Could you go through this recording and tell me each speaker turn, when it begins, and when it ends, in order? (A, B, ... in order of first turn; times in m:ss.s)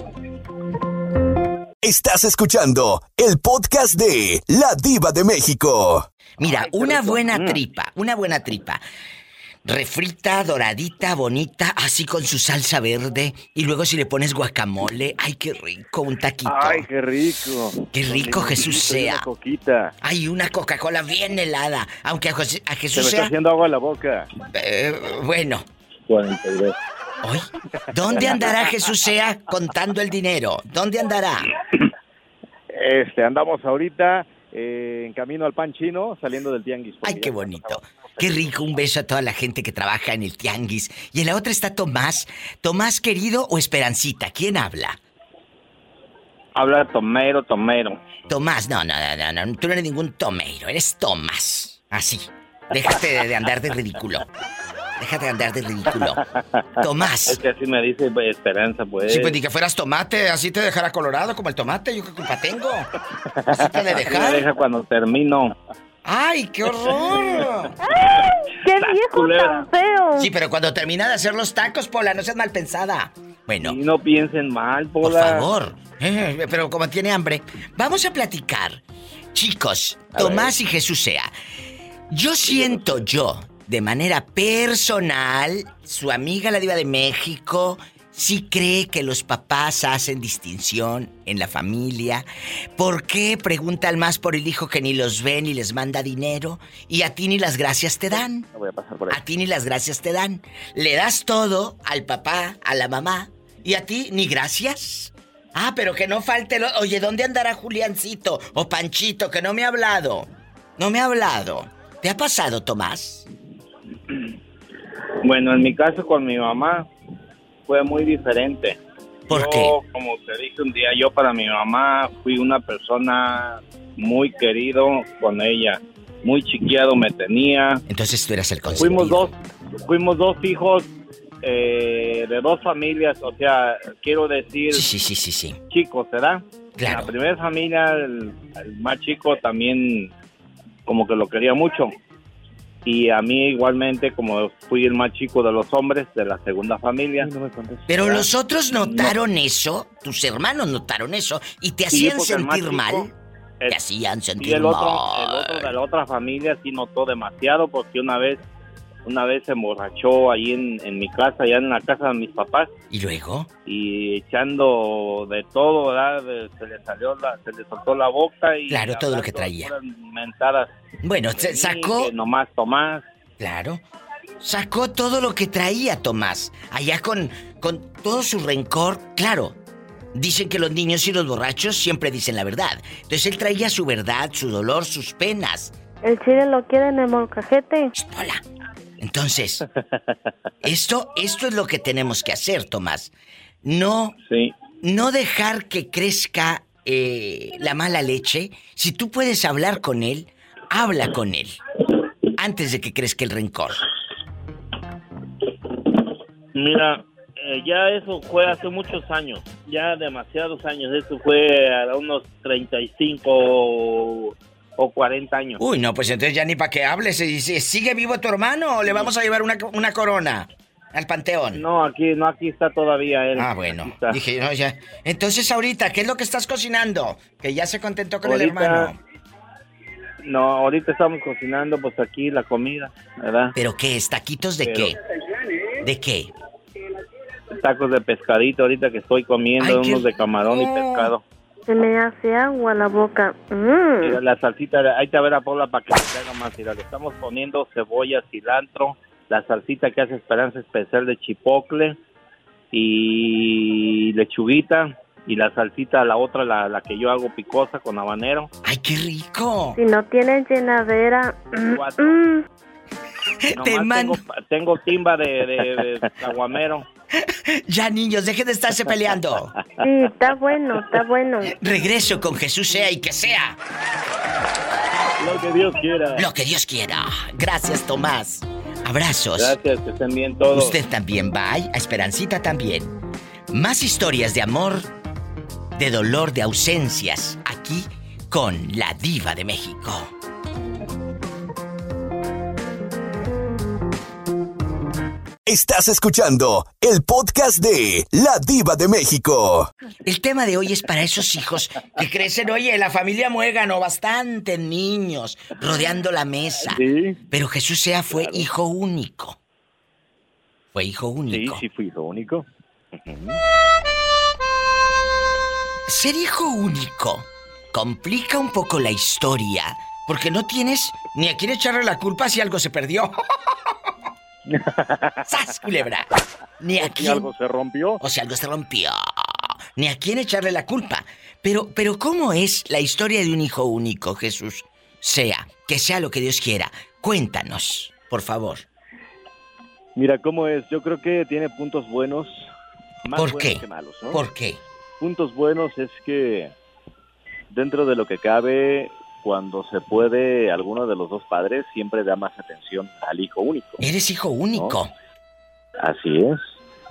0:01.8-0:06.1 A
0:06.4-0:08.8 B
0:06.4-0:07.6 C
0:09.6-0:16.9 B
0:16.4-0:19.9 C
0:17.9-0:19.3 B
0:20.0-0:23.3 B
0:22.9-0:24.3 C
0:24.5-0:25.6 B
0:27.2-0:31.5 B
0:28.1-0:28.6 C
0:32.7-0:38.8 C
0:37.0-0:45.0 B
0:46.6-0:47.9 D
0:48.3-0:54.2 B
0:55.0-0:56.2 B
0:56.8-0:57.4 B
0:57.5-0:59.2 D
0:59.0-1:02.9 B
1:03.5-1:04.5 B
1:03.7-1:05.3 D
1:06.0-1:07.7 B
1:07.8-1:10.3 E
1:10.2-1:13.8 B
1:14.2-1:15.4 D
1:15.0-1:18.8 B
1:19.3-1:21.3 B
1:20.1-1:20.5 C
1:22.1-1:32.2 B
1:22.5-1:22.8 C
1:32.8-1:38.4 B
1:38.1-1:39.2 C
1:39.1-1:53.3 B
1:55.2-1:56.8 D
1:57.7-1:58.7 D
1:59.3-1:59.8 B
1:59.3-2:07.8 D
2:07.9-2:09.4 B
2:08.8-2:09.1 C
2:08.8-2:09.2 D
2:09.9-2:10.8 D
2:11.4-2:14.8 D
2:14.7-2:15.6 B
2:15.7-2:20.1 D
2:16.8-2:17.1 B
2:20.9-2:21.8 D
2:22.9-2:27.1 D
2:27.2-2:28.3 C
2:27.9-2:33.1 B
2:28.8-2:29.1 C
2:31.9-2:33.0 D
2:33.7-2:35.7 B
2:34.4-2:38.4 D
2:39.1-2:42.7 D
2:42.9-2:43.5 B
2:43.7-2:50.7 D
2:48.7-2:49.7 B
2:51.0-2:52.1 B
2:51.4-2:53.0 D
2:53.4-2:53.8 B
2:54.4-2:59.5 B
3:00.1-3:05.7 B
3:06.0-3:07.9 E
3:08.0-3:08.4 B
3:09.0-3:09.6 B
3:10.6-3:13.1 B
3:13.6-3:14.1 B
3:14.8-3:21.6 B
3:22.4-3:23.8 B
3:26.6-3:35.6 D
3:35.6-3:41.6 B
3:41.6-3:44.2 D
3:43.3-3:49.0 B
3:48.2-3:48.9 D
3:50.2-3:53.5 D
3:53.5-3:55.0 B
3:55.8-3:56.3 B
3:57.6-4:01.2 D
3:59.6-4:01.1 B
4:01.7-4:04.2 E
4:04.0-4:12.0 D
4:12.7-4:18.5 D
4:18.6-4:19.8 B
4:19.7-4:22.4 E
4:21.8-4:22.0 D
4:23.4-4:24.2 B
4:23.6-4:26.8 D
4:25.5-4:26.1 C
4:27.5-4:29.5 B
4:29.8-4:31.5 E
4:31.5-4:33.6 B
4:35.2-4:36.3 C
4:36.1-4:39.6 B
4:39.4-4:40.7 D
4:40.5-4:42.9 B
4:43.5-4:44.9 B
4:45.8-4:50.1 B
4:55.5-4:59.7 A
5:00.0-5:09.4 B
5:06.6-5:07.2 C
5:08.1-5:08.5 C
5:10.7-5:11.6 B
5:11.3-5:13.4 C
5:15.9-5:23.1 B
5:25.2-5:26.1 B
5:26.6-5:27.3 B
5:26.8-5:28.0 C
5:28.0-5:38.6 B
5:40.0-5:42.5 C
5:43.0-5:44.2 C
5:43.1-5:44.6 B
5:45.0-5:46.5 C
5:47.5-5:53.8 C
5:53.8-5:54.9 B
5:55.8-5:56.5 C